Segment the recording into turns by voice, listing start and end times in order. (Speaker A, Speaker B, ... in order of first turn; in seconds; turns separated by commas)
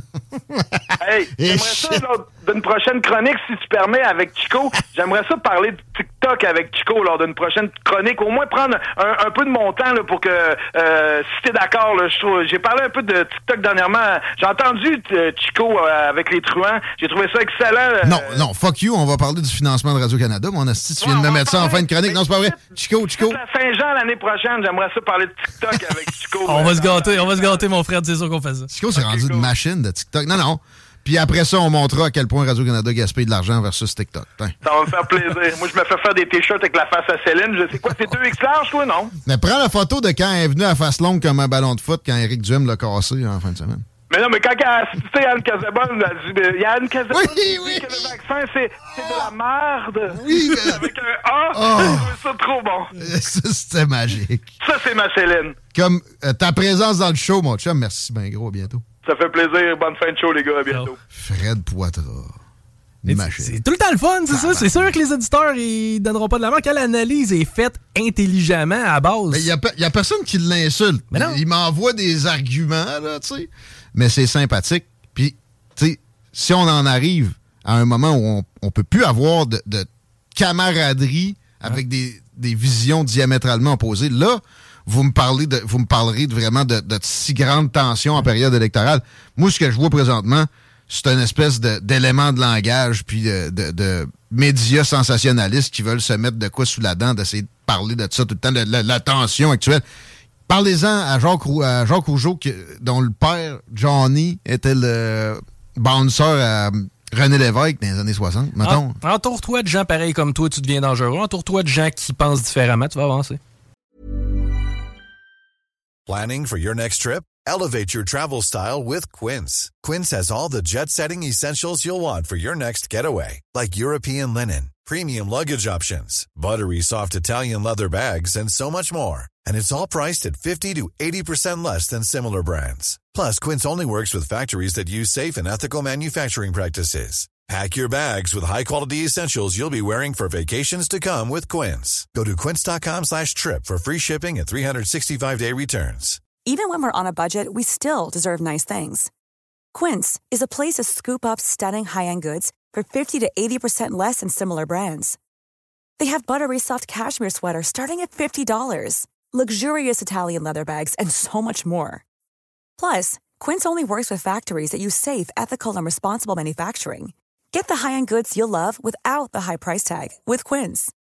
Speaker A: 0.5-2.0, Speaker B: 1.0-18.4, Speaker A: 18.0-23.4, Speaker B: 21.0-27.6, Speaker C: 26.5-28.7, Speaker A: 28.7-34.5, Speaker B: 28.9-29.5, Speaker B: 34.6-39.1, Speaker A: 39.3-43.9, Speaker B: 44.1-52.9, Speaker A: 47.1-48.2, Speaker A: 49.0-49.3, Speaker A: 50.1-50.9, Speaker A: 51.5-52.2, Speaker A: 53.0-54.5, Speaker B: 54.6-55.6, Speaker A: 55.7-58.8, Speaker B: 59.0-61.0, Speaker A: 61.1-62.4, Speaker A: 63.0-63.6, Speaker C: 63.1-69.5, Speaker A: 64.3-64.9, Speaker A: 69.3-99.8, Speaker C: 71.1-71.4, Speaker A: 100.5-109.0, Speaker C: 108.6-113.4, Speaker D: 116.1-146.2, Speaker E: 146.4-149.1, Speaker E: 149.7-155.2, Speaker E: 156.0-162.1, Speaker E: 162.8-170.9